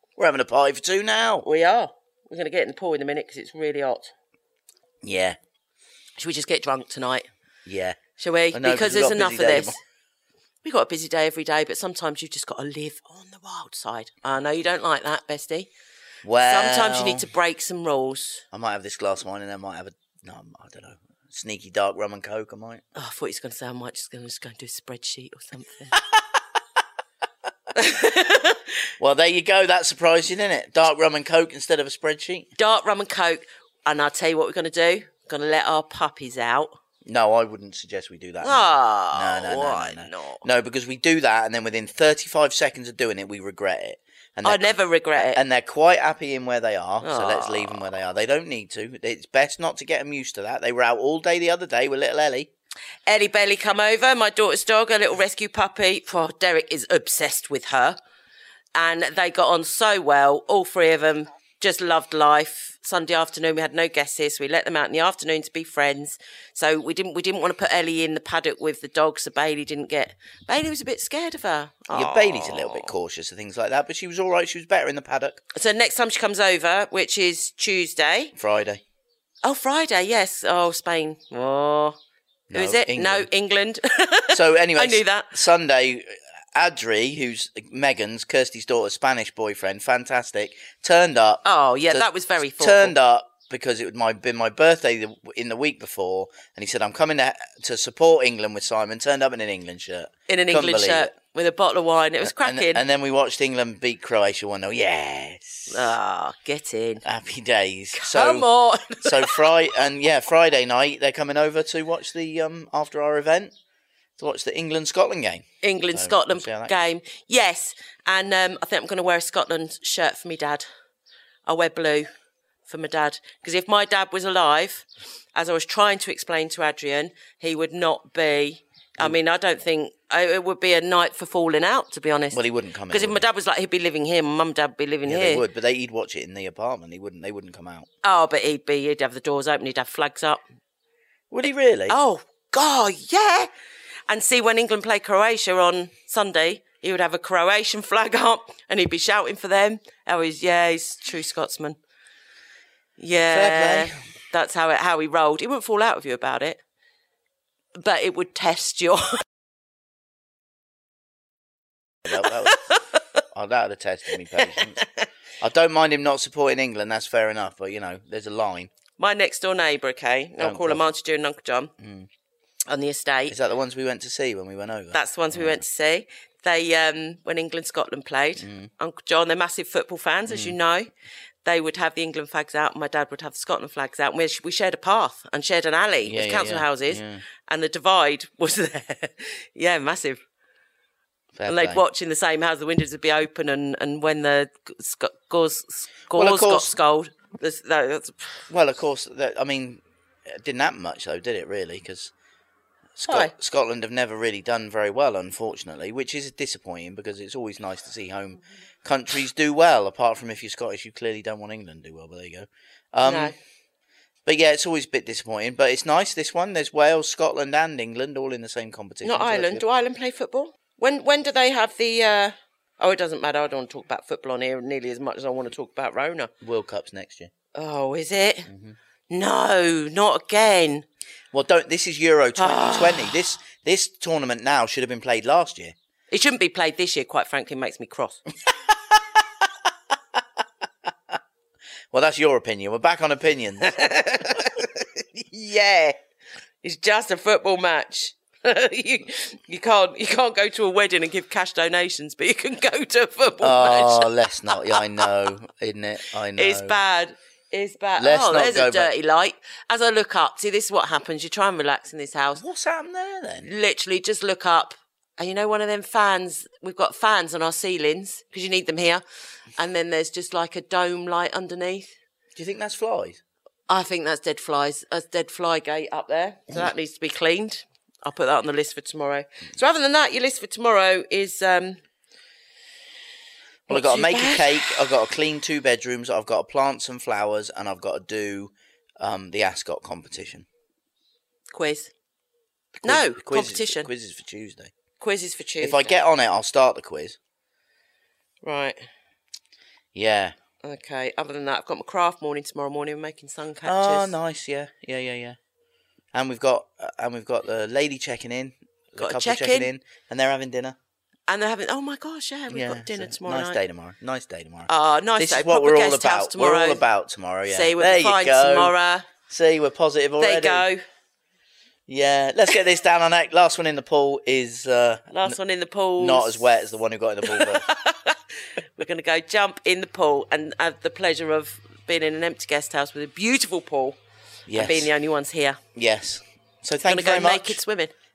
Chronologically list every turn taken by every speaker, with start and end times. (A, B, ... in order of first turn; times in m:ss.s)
0:00.2-0:01.4 A
0:01.4-0:04.1 B
0:05.0-0:05.4 A
0:06.2-0:07.3 B
0:07.6-0:08.0 A
0:08.2-0:09.8 B
0:08.5-0:09.8 A
0:10.6-0:15.7 B
0:16.2-0:17.3 A
0:16.4-0:18.4 B
0:18.5-0:22.8 A
0:23.0-0:26.0 B
0:27.7-0:28.9 B
0:29.0-0:32.5 A
0:32.6-0:36.7 B
0:37.0-0:52.5 A
0:38.4-0:40.4 B
0:44.4-0:45.4 B
0:47.0-0:47.8 B
0:53.1-0:58.0 B
0:58.8-1:12.9 B
1:11.9-1:15.4 A
1:15.5-1:18.3 B
1:18.4-1:18.8 A
1:19.4-1:22.0 B
1:22.5-1:23.3 A
1:22.5-1:25.4 B
1:24.3-1:32.0 A
1:31.4-1:33.0 B
1:32.6-1:41.1 A
1:40.3-1:42.8 B
1:42.2-1:45.9 A
1:45.7-1:47.0 B
1:47.0-1:48.5 A
1:47.9-1:49.5 B
1:49.0-1:53.5 A
1:54.2-1:56.8 A
1:55.6-2:00.6 B
2:01.5-2:02.1 B
2:02.7-2:15.4 B
2:12.3-2:13.2 A
2:15.0-2:17.9 A
2:18.0-2:20.4 B
2:21.3-2:22.0 A
2:21.9-2:23.5 B
2:24.1-2:31.8 B
2:33.0-2:36.6 B
2:33.3-2:34.0 A
2:37.8-2:39.2 B
2:42.0-2:42.6 A
2:42.2-2:43.0 B
2:43.3-2:44.8 A
2:44.3-2:45.1 B
2:45.4-2:48.7 A
2:49.0-2:51.7 B
2:50.4-2:50.9 A
2:51.8-2:52.1 A
2:52.6-2:53.4 B
2:53.3-2:55.6 A
2:54.9-3:00.9 B
2:58.4-2:58.7 A
3:00.3-3:00.6 A
3:01.4-3:10.2 B
3:06.0-3:07.2 A
3:11.4-3:11.8 A
3:11.5-3:18.2 B
3:16.1-3:16.8 A
3:18.5-3:22.1 A
3:23.0-3:33.4 A
3:23.1-3:23.3 B
3:33.0-3:33.4 B
3:34.3-3:39.6 A
3:39.0-3:46.3 B
3:46.4-3:47.3 A
3:47.5-3:48.5 B
3:48.5-3:48.8 A
3:49.1-3:50.9 B
3:51.3-3:55.7 A
3:52.4-3:53.1 B
3:56.1-3:58.2 B
4:01.9-4:03.7 A
4:03.6-4:06.0 B
4:06.6-4:15.1 B
4:13.4-4:16.8 A
4:16.4-4:22.4 B
4:18.0-4:18.9 A
4:22.4-4:23.5 A
4:23.4-4:29.0 B
4:29.6-4:31.9 B
4:32.4-4:33.2 A
4:33.7-4:41.8 B
4:43.7-4:50.5 A
4:43.7-4:44.9 B
4:51.5-4:51.9 B
4:52.8-4:54.7 A
4:52.8-4:53.9 B
4:55.0-4:56.0 B
4:55.6-4:57.2 A
4:58.4-4:58.9 B
4:59.9-5:00.3 A
5:00.6-5:04.2 B
5:03.6-5:05.4 A
5:06.1-5:10.8 A
5:09.0-5:09.7 B
5:11.3-5:13.6 B
5:12.5-5:18.7 A
5:14.7-5:16.8 B
5:17.5-5:19.1 B
5:19.3-5:20.6 A
5:20.2-5:20.8 B
5:21.9-5:25.4 A
5:25.1-5:26.5 B
5:26.0-5:27.7 A
5:27.2-5:34.0 B
5:34.5-5:34.9 A
5:34.6-5:35.6 B
5:35.8-5:37.6 A
5:36.9-5:37.9 B